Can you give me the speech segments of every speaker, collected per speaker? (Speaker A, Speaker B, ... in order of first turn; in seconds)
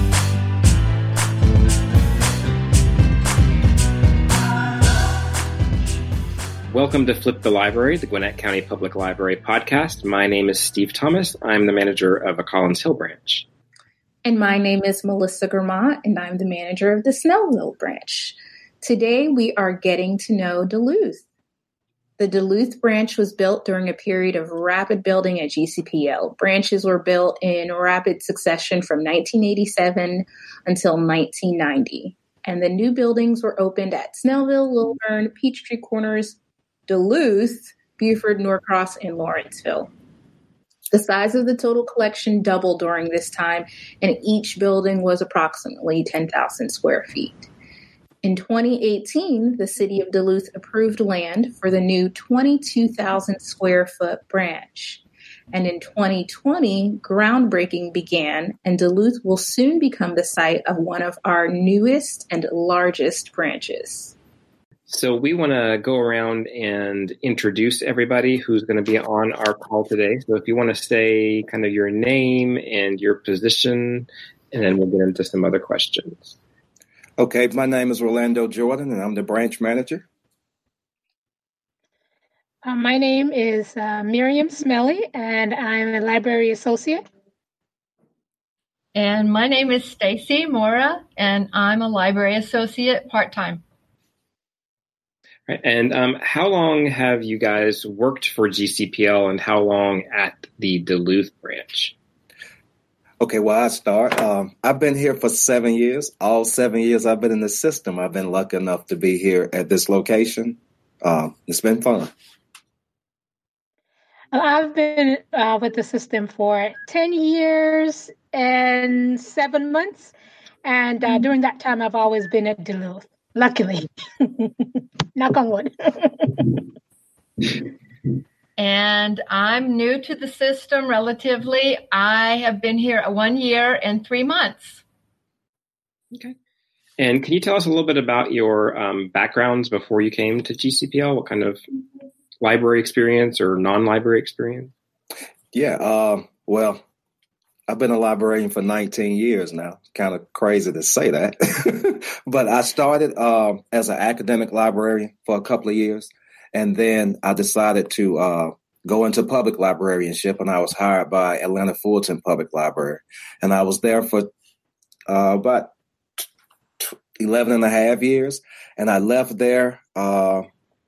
Speaker A: 6.7-13.5, 64.9-76.3, 95.5-101.9, 137.0-141.6, 142.4-144.7
Speaker B: 14.2-21.2, 22.2-39.9, 40.9-47.5, 48.2-64.1
Speaker C: 77.2-80.0, 103.2-112.1, 145.5-146.8, 147.7-164.3, 165.1-166.2, 166.8-170.4
Speaker D: 82.6-87.0, 114.3-120.1, 120.6-124.6, 125.1-126.6
Speaker E: 88.9-93.6, 128.6-134.8